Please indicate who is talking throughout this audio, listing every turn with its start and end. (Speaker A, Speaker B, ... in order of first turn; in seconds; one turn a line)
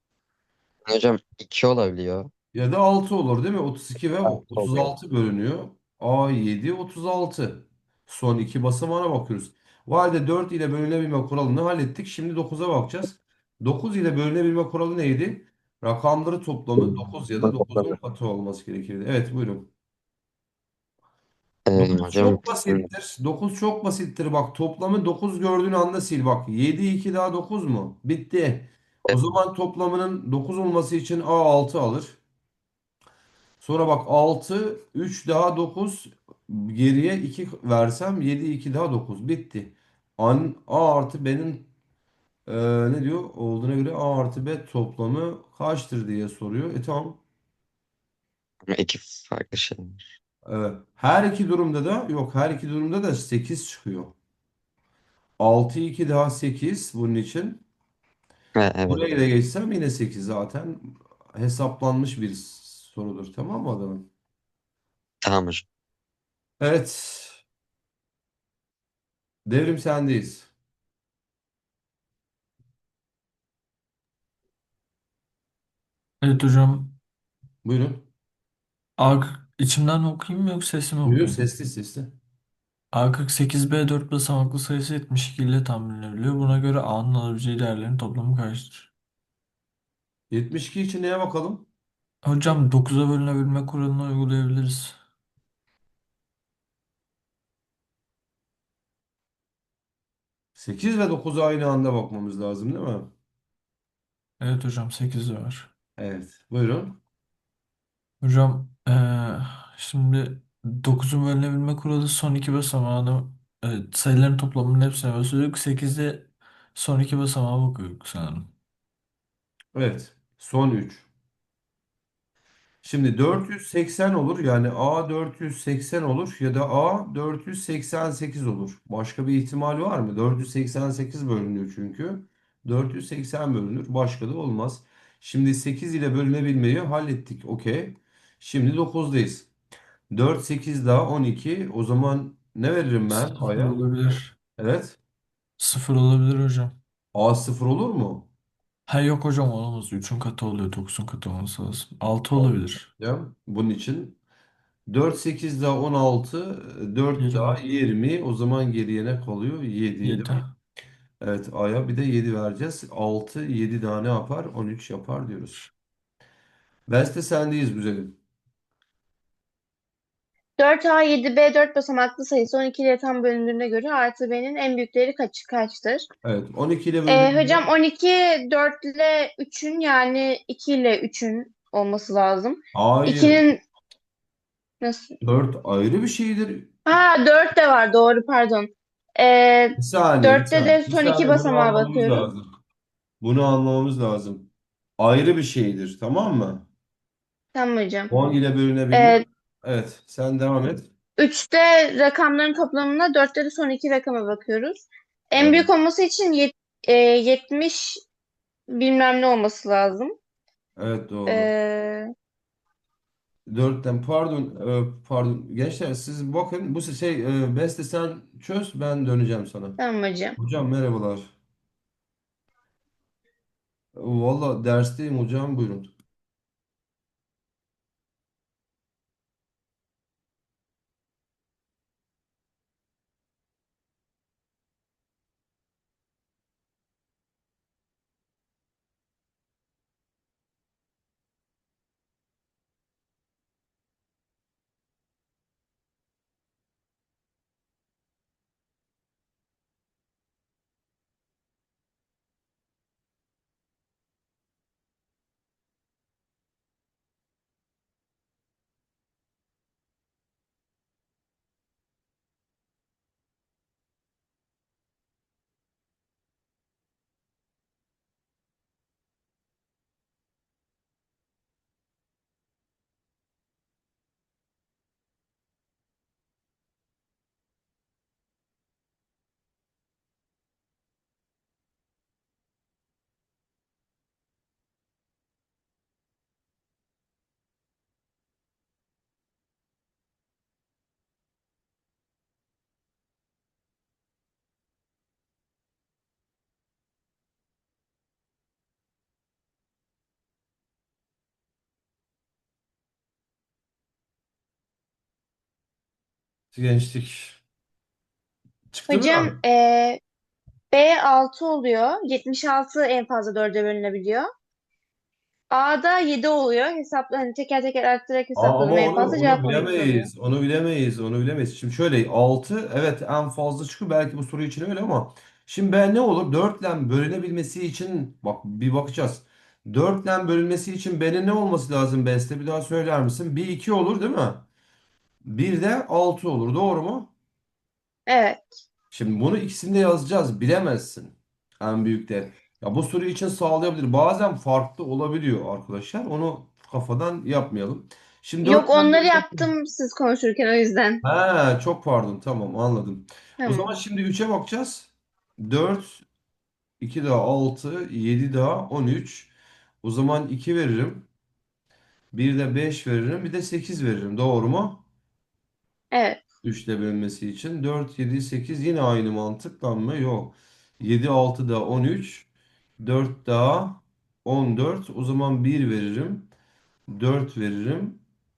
Speaker A: 0.9-2.3
Speaker B: 2.5-19.7
Speaker A: 4.2-4.9
Speaker A: 16.8-18.0
Speaker A: 21.7-22.9
Speaker B: 21.8-32.2
Speaker B: 33.6-41.7
Speaker B: 42.5-47.2
Speaker A: 48.7-50.1
Speaker B: 50.5-54.1
Speaker B: 55.4-57.6
Speaker A: 58.5-59.2
Speaker B: 58.9-64.1
Speaker A: 65.2-65.7
Speaker B: 66.6-67.4
Speaker B: 69.5-70.5
Speaker C: 76.2-77.0
Speaker B: 77.6-78.1
Speaker C: 79.0-81.5
Speaker B: 81.0-82.2
Speaker C: 82.9-88.9
Speaker B: 90.3-91.7
Speaker C: 92.2-95.0
Speaker B: 100.6-103.1
Speaker C: 104.4-105.7
Speaker B: 106.0-107.0
Speaker C: 108.2-118.5
Speaker B: 119.7-121.1
Speaker B: 122.8-139.5
Speaker B: 140.1-145.0
Speaker C: 143.1-144.4
Speaker C: 145.6-146.8
Speaker B: 147.1-148.3
Speaker C: 148.9-152.9
Speaker B: 152.4-154.2
Speaker B: 154.9-160.4
Speaker C: 157.2-157.6
Speaker C: 160.0-160.5
Speaker B: 161.2-165.7
Speaker B: 166.9-168.2
Speaker D: 170.6-176.1
Speaker B: 176.2-177.7
Speaker D: 177.1-183.6
Speaker B: 182.7-183.4
Speaker D: 184.8-185.2
Speaker B: 185.2-186.7
Speaker D: 186.9-192.3
Speaker B: 189.8-192.4
Speaker B: 193.2-196.7
Speaker D: 197.5-198.1
Speaker B: 198.1-200.9
Speaker D: 198.9-199.2
Speaker D: 201.2-208.0
Speaker B: 205.4-205.7
Speaker D: 208.7-210.2
Speaker B: 210.8-211.5
Speaker D: 211.3-212.1
Speaker B: 213.5-219.8
Speaker D: 219.8-220.4
Speaker B: 220.4-221.3
Speaker B: 223.9-225.9
Speaker B: 306.5-307.4
Speaker B: 308.7-309.4
Speaker D: 308.9-310.0
Speaker D: 310.7-314.3
Speaker D: 315.5-320.1
Speaker B: 318.4-334.5
Speaker B: 335.2-337.1
Speaker D: 338.1-338.4
Speaker B: 338.9-349.5
Speaker D: 348.4-351.0
Speaker B: 351.0-356.0
Speaker D: 353.4-353.7
Speaker B: 356.8-361.1
Speaker B: 362.1-364.8
Speaker D: 365.9-366.2
Speaker B: 366.4-372.3
Speaker B: 372.8-376.3
Speaker B: 376.9-378.0